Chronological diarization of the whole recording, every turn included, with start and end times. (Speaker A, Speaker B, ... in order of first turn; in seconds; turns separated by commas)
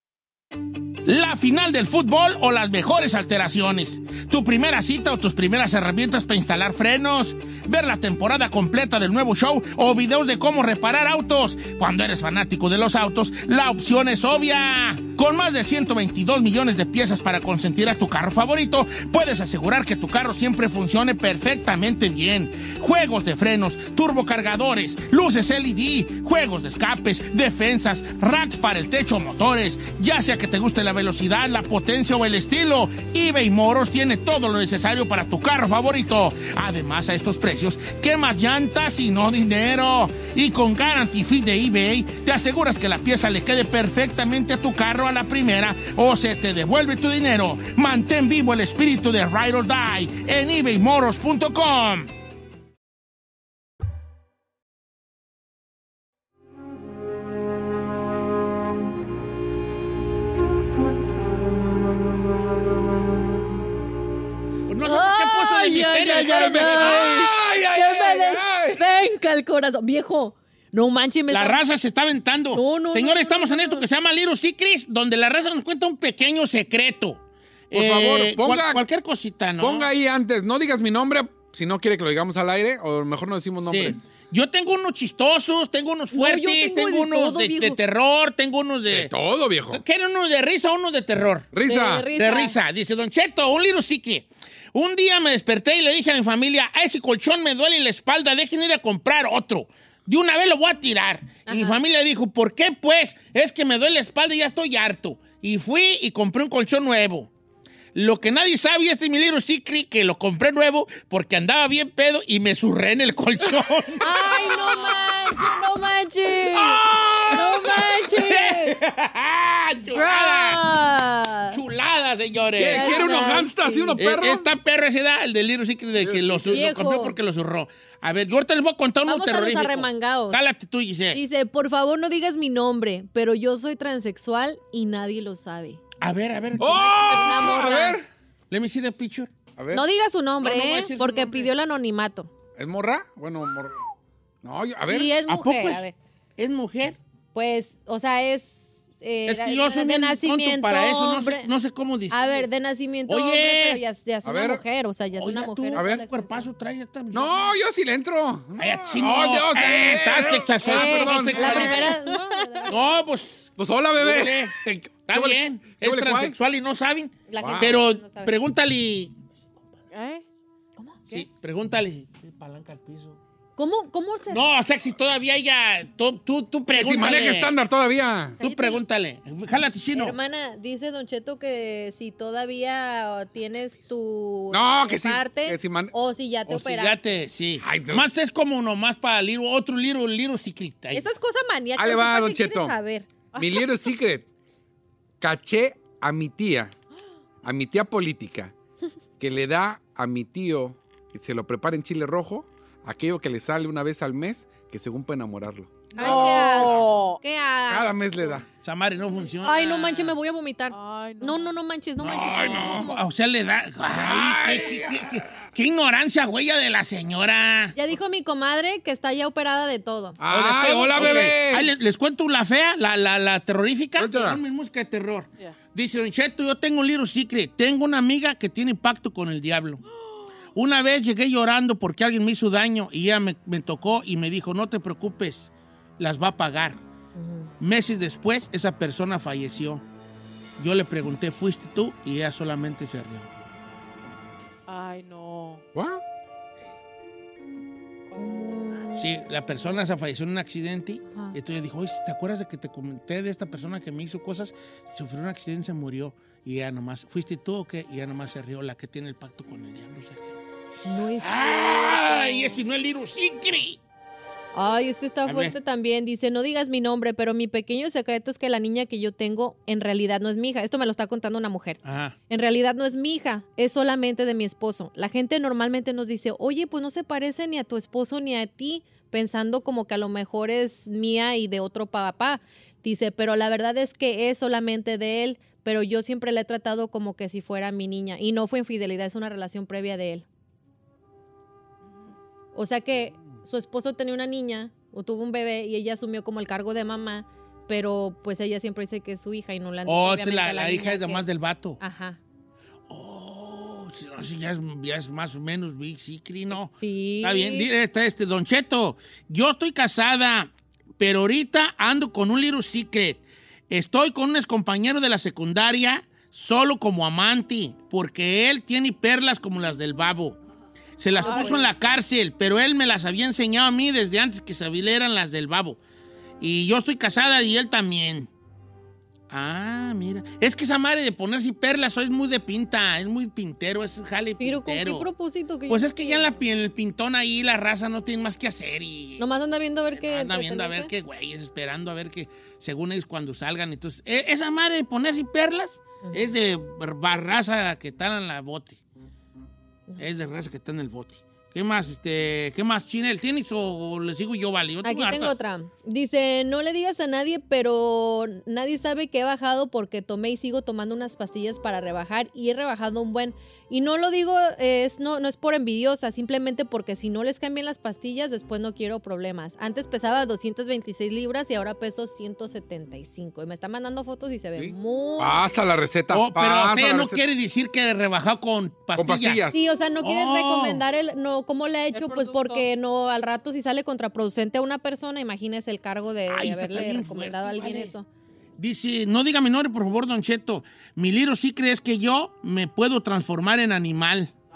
Speaker A: 1.0-52.1, Speaker A: 64.7-67.2, Speaker B: 64.8-71.6, Speaker C: 66.3-68.8, Speaker A: 71.3-79.9, Speaker B: 72.5-73.8, Speaker C: 77.7-78.8, Speaker C: 79.6-84.0, Speaker A: 83.6-89.1, Speaker B: 86.1-87.8, Speaker C: 88.9-89.8, Speaker A: 89.7-91.5, Speaker C: 91.5-92.1, Speaker B: 91.7-92.5, Speaker A: 92.1-107.3, Speaker B: 101.5-101.8, Speaker A: 107.9-114.5, Speaker B: 114.0-118.8, Speaker A: 116.5-120.6, Speaker C: 116.9-117.4, Speaker B: 119.9-121.6, Speaker A: 121.5-123.0, Speaker C: 122.6-124.5, Speaker B: 122.6-124.0, Speaker A: 124.0-131.2, Speaker C: 126.0-126.6, Speaker B: 126.5-127.2, Speaker B: 129.1-130.4, Speaker B: 131.1-135.8, Speaker A: 136.0-137.5, Speaker C: 136.6-138.1, Speaker B: 137.1-138.0, Speaker A: 138.5-139.3, Speaker C: 139.6-139.8, Speaker B: 139.7-142.3, Speaker A: 140.4-141.5, Speaker C: 142.6-143.8, Speaker C: 144.4-145.1, Speaker B: 144.9-145.9, Speaker A: 145.3-145.8, Speaker A: 146.4-147.0, Speaker B: 147.3-151.5, Speaker A: 149.2-152.4, Speaker B: 152.1-156.5, Speaker A: 153.1-153.8, Speaker C: 154.2-154.6, Speaker A: 155.2-157.5, Speaker C: 155.7-156.0, Speaker C: 157.1-161.9, Speaker A: 158.6-162.0, Speaker B: 160.6-162.7, Speaker D: 162.0-162.7, Speaker A: 162.7-169.1, Speaker C: 163.6-166.3, Speaker B: 167.3-168.3, Speaker C: 167.4-167.8, Speaker D: 169.9-170.2, Speaker B: 170.8-171.2, Speaker A: 171.1-173.2, Speaker B: 173.6-174.4, Speaker A: 174.3-177.5, Speaker C: 176.7-178.4, Speaker B: 178.4-178.8, Speaker A: 178.4-180.2, Speaker B: 179.9-187.0, Speaker C: 184.5-185.9, Speaker A: 186.5-191.1, Speaker C: 187.6-188.1, Speaker B: 190.9-193.1, Speaker C: 191.8-192.7, Speaker C: 193.3-194.3, Speaker C: 195.2-196.7, Speaker C: 197.4-198.5, Speaker C: 199.2-207.0, Speaker D: 205.9-207.2, Speaker B: 206.0-208.4, Speaker C: 207.7-208.5, Speaker A: 208.6-210.2, Speaker B: 209.4-212.9, Speaker D: 210.7-211.5, Speaker A: 212.0-217.8, Speaker C: 212.1-212.8, Speaker C: 213.9-215.1, Speaker B: 217.8-220.2, Speaker C: 220.2-221.7, Speaker A: 220.3-229.8, Speaker C: 224.0-224.4, Speaker A: 230.5-236.8, Speaker B: 237.2-237.5, Speaker A: 237.6-239.8, Speaker A: 240.6-243.3, Speaker D: 244.7-245.6, Speaker C: 245.7-246.0, Speaker D: 248.1-248.9, Speaker A: 248.9-260.4, Speaker B: 260.8-262.6, Speaker A: 261.2-263.8, Speaker B: 264.5-290.2, Speaker A: 265.2-265.6, Speaker A: 271.8-272.1, Speaker B: 292.5-301.2, Speaker A: 299.9-301.8, Speaker B: 301.8-302.2, Speaker A: 302.9-320.4, Speaker B: 306.5-307.7, Speaker A: 321.0-325.8, Speaker D: 321.1-321.7, Speaker A: 326.4-328.3, Speaker A: 329.3-335.1, Speaker B: 334.4-336.4, Speaker A: 335.7-339.2, Speaker B: 339.2-340.9, Speaker A: 339.9-348.8, Speaker A: 350.0-355.4, Speaker B: 354.8-375.4, Speaker C: 374.5-377.2, Speaker A: 376.1-380.8, Speaker C: 378.9-379.6, Speaker B: 379.5-388.0, Speaker D: 381.9-382.7, Speaker A: 386.3-387.9, Speaker A: 388.6-394.3